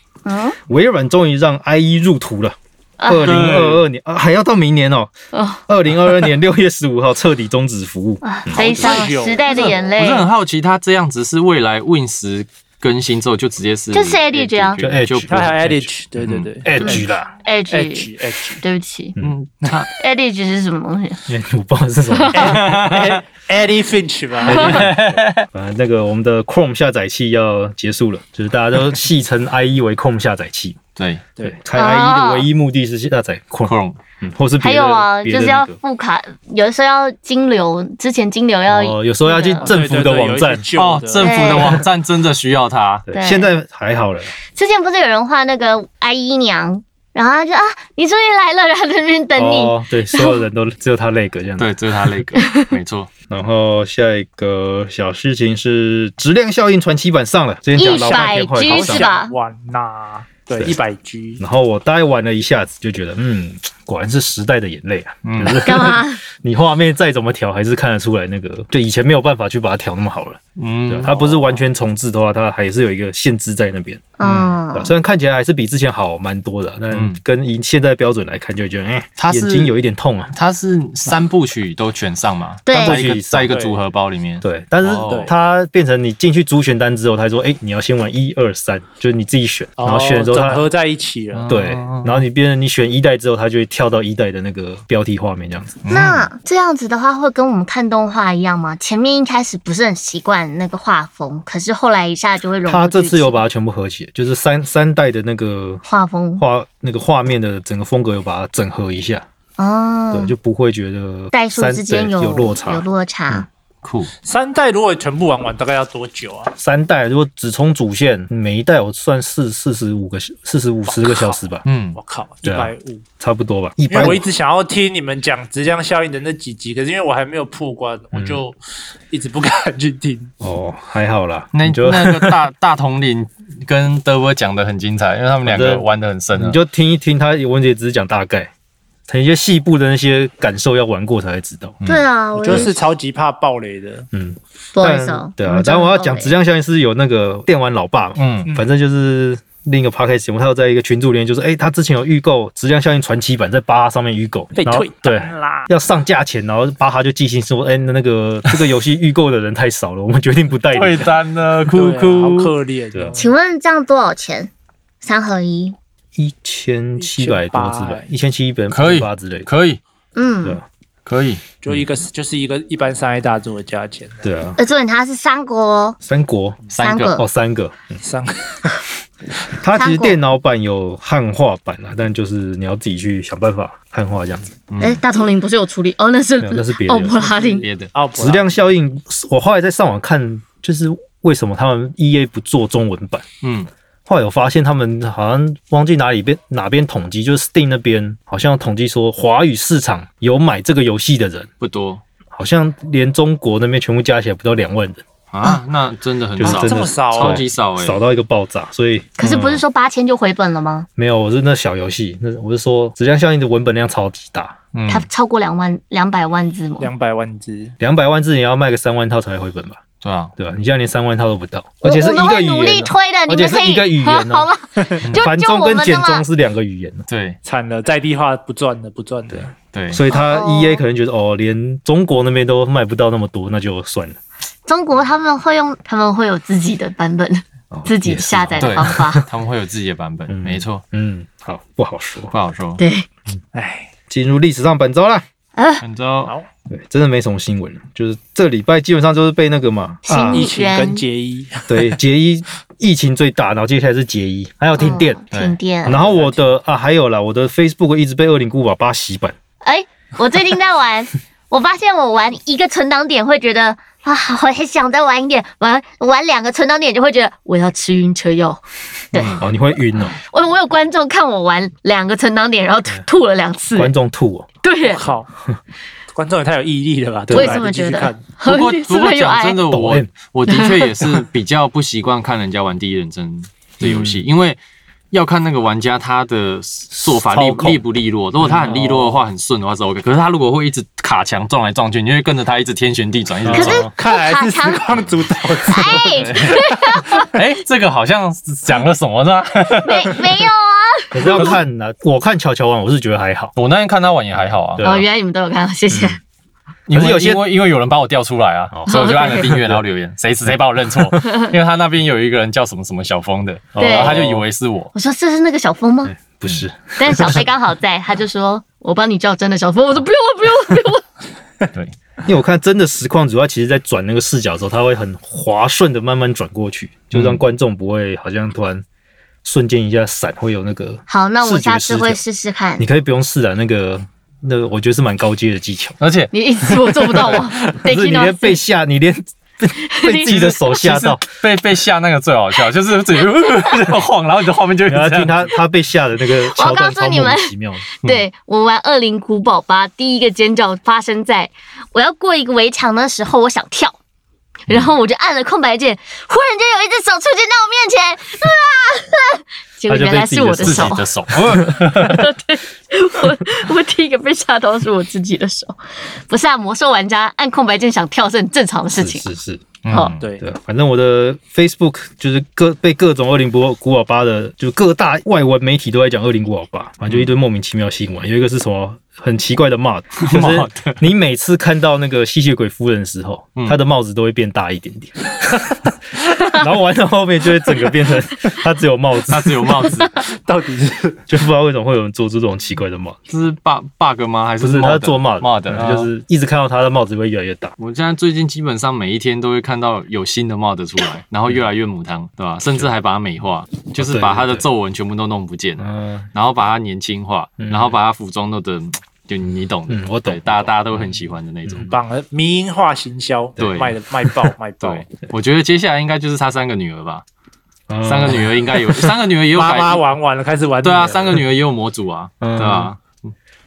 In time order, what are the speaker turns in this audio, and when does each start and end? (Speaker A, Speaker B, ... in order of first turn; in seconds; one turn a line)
Speaker A: 0.2-0.6
Speaker B: 0.7-5.1
Speaker A: 3.0-3.4
Speaker C: 3.2-3.8
Speaker A: 5.3-5.6
Speaker B: 5.7-9.1
Speaker A: 8.2-10.3
Speaker D: 8.5-9.9
Speaker C: 9.5-15.6
Speaker A: 13.9-14.8
Speaker B: 14.8-15.9
Speaker D: 15.3-17.0
Speaker C: 16.2-16.5
Speaker B: 16.6-17.3
Speaker A: 16.8-18.1
Speaker D: 17.7-18.6
Speaker A: 18.6-19.1
Speaker C: 19.2-19.9
Speaker A: 19.9-21.2
Speaker B: 21.3-22.9
Speaker A: 22.1-22.5
Speaker C: 22.4-23.2
Speaker D: 22.6-24.8
Speaker B: 24.5-30.8
Speaker C: 24.5-25.5
Speaker C: 30.9-31.2
Speaker B: 31.4-35.8
Speaker A: 31.7-32.5
Speaker C: 33.6-34.0
Speaker A: 34.6-39.7
Speaker B: 38.7-40.7
Speaker D: 39.6-41.7
Speaker C: 40.7-43.1
Speaker A: 41.2-41.8
Speaker B: 43.1-44.3
Speaker A: 43.1-43.5
Speaker A: 44.5-50.4
Speaker B: 49.4-51.8
Speaker C: 51.6-53.1
Speaker A: 52.3-52.6
Speaker B: 53.3-59.1
Speaker A: 57.8-59.3
Speaker D: 57.8-61.4
Speaker B: 61.4-74.1
Speaker C: 65.2-65.6
Speaker A: 65.6-66.2
Speaker C: 70.5-71.2
Speaker D: 71.2-71.6
Speaker A: 74.2-74.9
Speaker C: 74.2-74.5
Speaker B: 74.7-80.3
Speaker C: 76.9-77.2
Speaker C: 79.2-79.7
Speaker C: 80.3-85.3
Speaker A: 82.7-83.0
Speaker B: 82.7-83.6
Speaker D: 83.4-83.8
Speaker B: 84.4-90.6
Speaker D: 85.1-85.3
Speaker D: 89.8-91.5
Speaker C: 91.3-92.2
Speaker B: 91.5-95.8
Speaker C: 95.8-96.3
Speaker A: 95.9-103.4
Speaker B: 102.6-105.8
Speaker A: 105.8-106.4
Speaker B: 106.4-109.2
Speaker A: 109.6-110.3
Speaker B: 110.1-113.5
Speaker A: 111.3-113.5
Speaker C: 113.8-114.1
Speaker D: 114.2-116.5
Speaker B: 116.6-121.6
Speaker D: 120.8-121.4
Speaker C: 121.6-122.0
Speaker D: 122.0-123.0
Speaker B: 122.4-124.2
Speaker D: 123.9-128.6
Speaker B: 128.1-128.4
Speaker D: 129.1-130.3
Speaker B: 130.4-132.4
Speaker C: 131.5-136.6
Speaker B: 135.4-138.5
Speaker B: 139.1-141.8
Speaker A: 141.8-142.8
Speaker D: 142.4-144.1
Speaker B: 144.1-161.1
Speaker A: 144.7-146.3
Speaker C: 148.2-148.5
Speaker D: 154.5-155.7
Speaker C: 160.7-162.5
Speaker D: 161.7-163.3
Speaker A: 163.2-164.5
Speaker A: 165.0-165.8
Speaker B: 166.2-169.5
Speaker D: 167.0-168.0
Speaker C: 168.7-169.8
Speaker A: 170.1-170.6
Speaker C: 171.1-171.4
Speaker D: 171.6-174.3
Speaker B: 174.2-174.6
Speaker A: 174.6-176.0
Speaker B: 176.0-176.6
Speaker C: 176.7-177.2
Speaker A: 176.8-177.2
Speaker B: 177.1-178.0
Speaker D: 178.0-178.8
Speaker B: 179.5-184.5
Speaker A: 179.7-180.2
Speaker C: 184.7-185.0
Speaker A: 184.8-187.7
Speaker B: 186.4-187.3
Speaker D: 187.1-188.6
Speaker C: 187.6-187.9
Speaker B: 188.2-193.2
Speaker C: 193.4-193.7
Speaker B: 194.1-201.5
Speaker C: 201.6-202.0
Speaker B: 202.3-205.0
Speaker C: 205.3-208.0
Speaker B: 206.4-209.6
Speaker D: 206.4-207.4
Speaker A: 209.2-210.9
Speaker B: 211.0-214.6
Speaker C: 214.7-215.1
Speaker A: 214.9-216.9
Speaker D: 216.8-217.7
Speaker B: 217.8-219.8
Speaker C: 220.0-220.3
Speaker B: 220.4-224.5
Speaker A: 221.8-226.2
Speaker C: 225.0-225.3
Speaker B: 225.1-227.1
Speaker C: 227.1-227.4
Speaker D: 227.4-229.5
Speaker B: 229.3-234.2
Speaker C: 229.7-230.0
Speaker A: 230.1-230.8
Speaker A: 234.7-239.2
Speaker B: 237.7-239.2
Speaker C: 238.6-240.8
Speaker B: 240.3-242.3
Speaker C: 242.3-242.8
Speaker A: 242.8-243.1
Speaker D: 243.5-243.9
Speaker B: 244.1-245.2
Speaker A: 245.6-245.8
Speaker C: 245.8-246.3
Speaker B: 246.7-250.5
Speaker A: 250.1-251.0
Speaker D: 250.3-251.9
Speaker B: 251.7-255.2
Speaker A: 254.8-256.2
Speaker B: 255.8-259.3
Speaker D: 256.0-256.3
Speaker A: 259.6-269.5
Speaker C: 269.1-269.4
Speaker B: 269.4-270.2
Speaker A: 270.0-273.9
Speaker B: 273.7-274.5
Speaker A: 274.6-275.1
Speaker D: 274.8-275.3
Speaker D: 276.1-278.2
Speaker B: 277.3-277.6
Speaker A: 277.3-279.6
Speaker C: 278.4-284.6
Speaker B: 279.7-280.1
Speaker A: 280.5-281.2
Speaker B: 283.8-284.2
Speaker C: 285.1-293.9
Speaker B: 286.9-287.8
Speaker B: 288.4-289.2
Speaker B: 293.4-293.9
Speaker A: 293.5-294.9
Speaker D: 293.8-296.6
Speaker A: 295.6-297.3
Speaker C: 296.3-296.5
Speaker C: 297.2-300.2
Speaker A: 299.8-301.6
Speaker B: 301.1-303.5
Speaker C: 303.6-304.9
Speaker B: 304.8-305.1
Speaker A: 304.8-306.2
Speaker B: 305.9-306.2
Speaker C: 306.9-314.9
Speaker B: 306.9-307.5
Speaker B: 308.7-309.8
Speaker A: 308.9-309.5
Speaker B: 313.7-314.4
Speaker A: 313.8-314.2
Speaker A: 314.9-316.1
Speaker B: 316.0-317.4
Speaker A: 317.0-321.0
Speaker B: 322.2-328.8
Speaker C: 327.1-327.4
Speaker B: 329.4-332.2
Speaker A: 331.1-332.9
Speaker B: 332.8-335.9
Speaker C: 336.0-337.4
Speaker A: 336.3-338.6
Speaker B: 337.3-341.2
Speaker A: 339.8-340.5
Speaker C: 340.2-345.5
Speaker B: 344.9-348.0
Speaker A: 346.2-354.0
Speaker A: 354.7-361.1
Speaker B: 359.9-361.9
Speaker C: 360.6-362.2
Speaker A: 361.9-369.2
Speaker B: 368.9-385.6
Speaker C: 369.8-370.2
Speaker A: 369.9-370.1
Speaker D: 370.2-370.4
Speaker C: 380.2-381.0
Speaker B: 386.4-389.9
Speaker C: 389.3-390.2
Speaker D: 390.1-391.2
Speaker B: 391.3-393.2
Speaker C: 393.3-396.1
Speaker B: 394.6-397.7
Speaker C: 397.8-411.9
Speaker B: 403.9-404.6
Speaker B: 405.8-406.3
Speaker B: 407.6-407.9
Speaker B: 409.9-411.9
Speaker D: 411.9-415.1
Speaker C: 413.6-414.0
Speaker C: 414.8-417.2
Speaker B: 417.9-419.0
Speaker C: 418.0-420.0
Speaker D: 419.5-421.4
Speaker C: 420.8-423.3
Speaker B: 422.4-422.9